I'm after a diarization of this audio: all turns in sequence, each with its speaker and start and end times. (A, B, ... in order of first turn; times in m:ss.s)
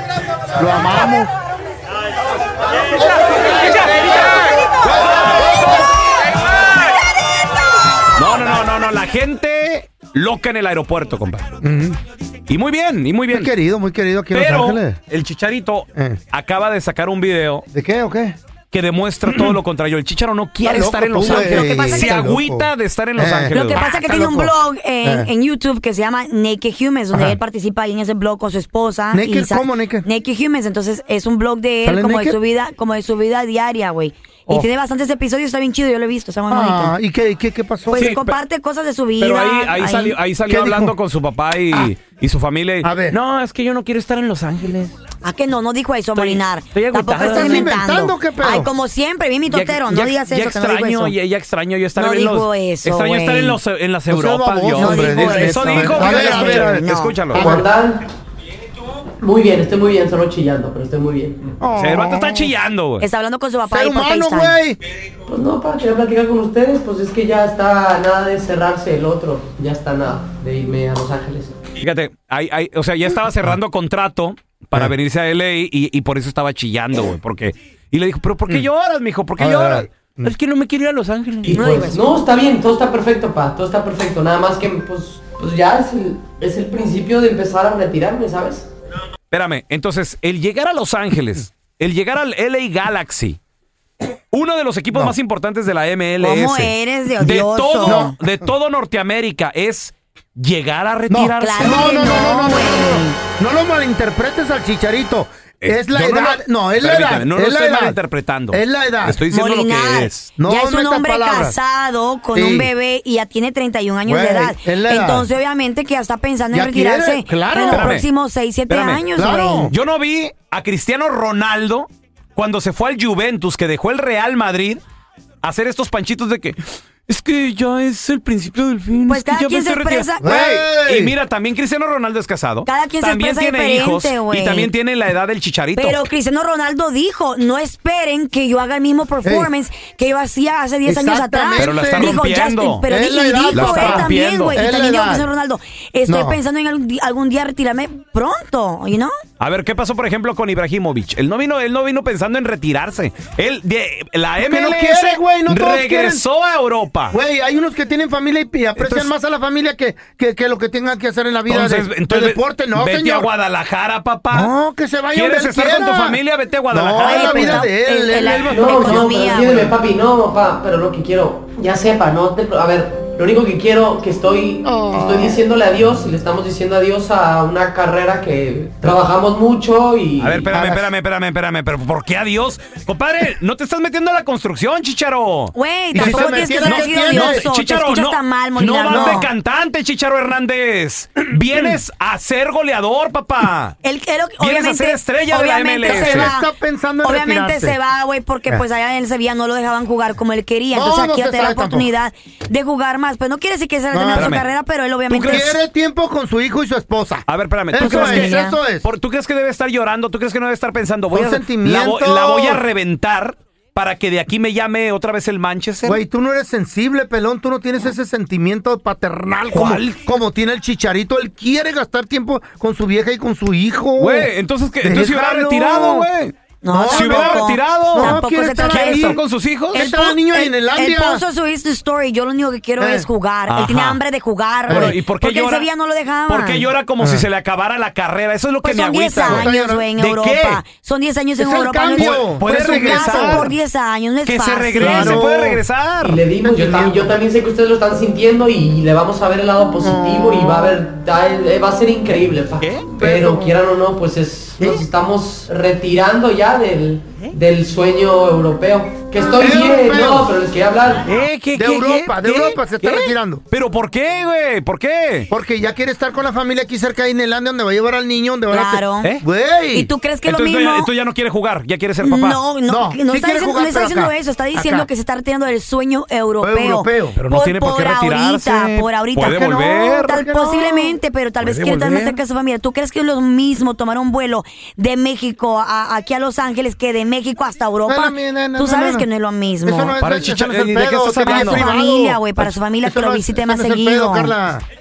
0:00.6-0:01.3 A
0:03.0-0:05.8 A
0:08.2-0:11.5 B
0:11.6-0:12.0 A
0:12.5-0:13.5 B
0:13.3-0:15.0 A
0:14.3-0:17.7 B
0:16.0-0:16.2 A
0:17.7-0:18.4 A
0:18.7-0:24.3 B
0:20.6-0:25.3 A
0:21.2-0:22.1 C
0:23.5-0:37.0 C
0:29.1-0:30.1 A
0:31.8-0:32.4 A
0:36.5-0:38.0 A
0:37.9-0:40.2 C
0:37.9-0:38.4 B
0:39.2-0:45.0 B
0:40.5-0:41.0 A
0:42.8-0:43.2 A
0:45.2-0:51.2 C
0:46.1-0:47.7 B
0:47.1-0:48.7 A
0:49.5-0:57.5 B
0:52.0-0:53.6 C
0:54.1-0:57.6 A
0:54.7-0:57.3 C
0:57.3-0:58.0 D
0:59.2-1:01.5 D
1:01.6-1:02.5 A
1:01.8-1:03.1 B
1:03.0-1:04.6 C
1:03.7-1:04.8 A
1:05.3-1:11.6 D
1:11.8-1:21.8 B
1:19.4-1:20.3 A
1:21.5-1:28.7 D
1:21.5-1:22.1 C
1:29.3-1:33.4 B
1:34.3-1:41.9 B
1:36.2-1:38.2 C
1:37.8-1:38.3 A
1:41.1-1:48.0 A
1:41.4-1:43.2 C
1:45.6-1:50.3 B
1:48.5-1:49.2 A
1:49.3-1:59.7 C
1:50.4-1:51.6 A
1:52.3-1:52.7 A
1:54.1-1:55.3 A
1:56.5-1:58.0 A
1:57.5-1:58.1 B
1:58.7-2:04.8 B
1:59.1-1:59.7 A
2:05.4-2:16.1 B
2:09.1-2:10.3 C
2:10.2-2:11.2 A
2:12.6-2:14.7 C
2:15.8-2:29.1 C
2:19.2-2:19.5 A
2:20.8-2:22.2 A
2:21.6-2:22.8 B
2:22.9-2:25.3 A
2:23.5-2:24.6 B
2:26.1-2:26.4 A
2:29.4-2:37.2 B
2:34.4-2:36.3 A
2:37.1-2:43.3 A
2:38.8-2:39.1 B
2:41.5-2:44.5 B
2:44.3-2:49.2 A
2:45.1-2:47.6 B
2:47.0-2:49.8 C
2:48.5-3:00.5 D
2:54.6-2:55.4 A
3:00.2-3:13.8 B
3:00.5-3:00.9 A
3:05.5-3:09.3 C
3:05.9-3:07.5 A
3:08.9-3:09.3 A
3:13.8-3:16.5 C
3:14.4-3:16.3 B
3:15.8-3:17.8 A
3:17.0-3:25.6 C
3:20.7-3:21.9 A
3:23.9-3:24.4 A
3:24.1-3:24.5 B
3:25.1-3:25.6 B
3:25.2-3:28.9 A
3:27.3-3:36.0 B
3:27.8-3:28.6 C
3:31.1-3:32.6 A
3:35.8-3:44.3 A
3:39.5-3:40.0 B
3:44.0-3:50.0 B
3:44.8-3:46.1 A
3:46.6-3:56.7 C
3:46.7-3:51.2 A
3:52.8-3:53.1 A
3:53.5-3:54.0 B
3:54.7-3:55.7 B
3:54.7-3:55.0 A
3:56.3-4:00.6 B
3:57.0-3:57.3 A
3:58.6-4:05.2 C
3:59.2-3:59.9 A
4:01.4-4:03.5 A
4:01.9-4:03.6 B
4:04.2-4:06.2 B
4:04.8-4:05.6 A
4:06.0-4:21.0 D
4:06.4-4:07.2 A
4:09.8-4:10.7 A
4:12.6-4:13.0 B
4:13.0-4:13.5 A
4:19.3-4:20.3 A
4:21.0-4:25.3 B
4:21.5-4:23.4 A
4:25.3-4:29.9 A
4:28.5-4:29.2 C
4:29.7-4:30.9 C
4:30.2-4:32.4 B
4:32.0-4:50.0 C
4:32.7-4:34.9 A
4:36.4-4:37.2 A
4:37.2-4:40.2 B
4:40.0-4:41.0 A
4:41.4-4:41.9 B
4:41.6-4:42.2 A
4:47.9-4:49.1 A
4:49.6-4:54.6 A
4:50.0-4:51.7 B
4:51.2-4:54.3 C